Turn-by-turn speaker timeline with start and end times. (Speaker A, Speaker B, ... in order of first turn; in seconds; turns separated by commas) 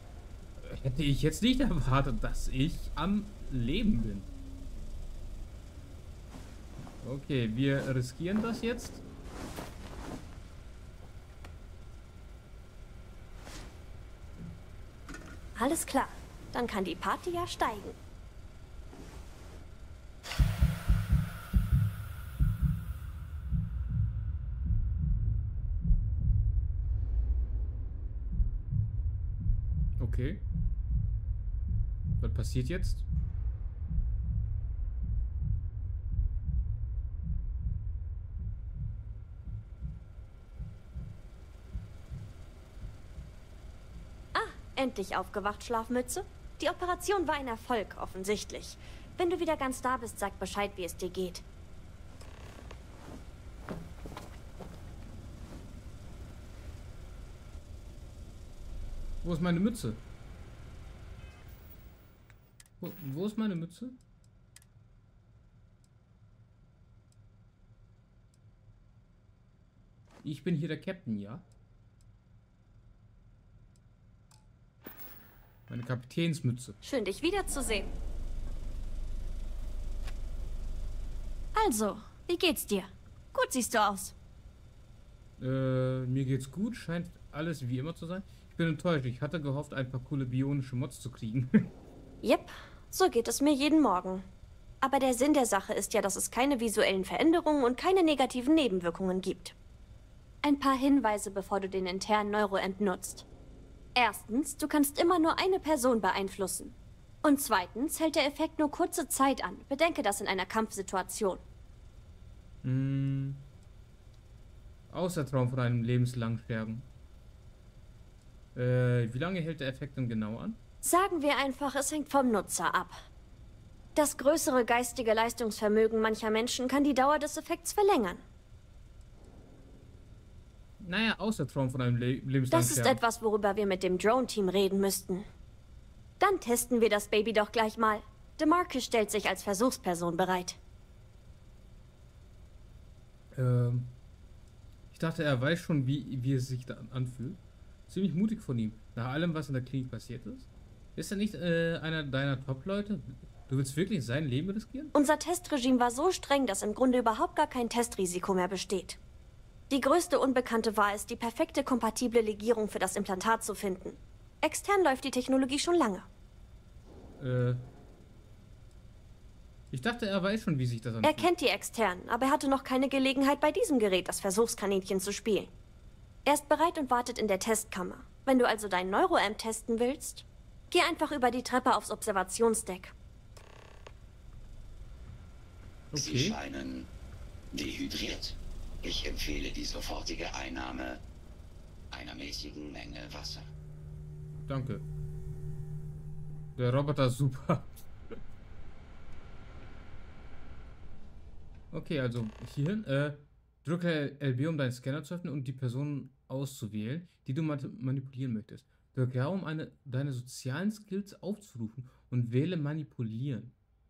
Speaker A: 0.6-4.3, Speaker A: 7.0-9.0, Speaker B: 15.6-17.9, Speaker A: 30.0-30.4, Speaker A: 32.2-33.0, Speaker B: 44.3-51.4, Speaker A: 59.2-60.0, Speaker A: 62.8-64.0, Speaker A: 70.2-71.4, Speaker A: 75.7-76.8, Speaker B: 76.8-77.9, Speaker B: 81.5-84.1, Speaker A: 85.4-91.7, Speaker B: 92.2-94.2, Speaker B: 94.8-99.5, Speaker B: 100.4-103.2, Speaker B: 103.9-111.4, Speaker A: 112.6-113.5, Speaker A: 114.9-116.9, Speaker A: 118.5-120.6, Speaker B: 120.8-123.0, Speaker B: 123.9-128.2, Speaker A: 130.8-133.0, Speaker B: 132.5-135.3, Speaker B: 136.2-140.6, Speaker A: 143.3-144.0, Speaker A: 144.9-154.9, Speaker B: 154.9-159.0, Speaker B: 159.7-166.1, Speaker A: 167.2-167.6, Speaker A: 169.7-171.3, Speaker B: 171.0-175.5, Speaker B: 176.2-182.9, Speaker A: 185.9-186.4, Speaker C: 185.9-186.9, Speaker C: 187.5-191.0, Speaker C: 191.9-193.4, Speaker A: 194.5-194.8, Speaker A: 196.6-198.2, Speaker A: 201.7-213.5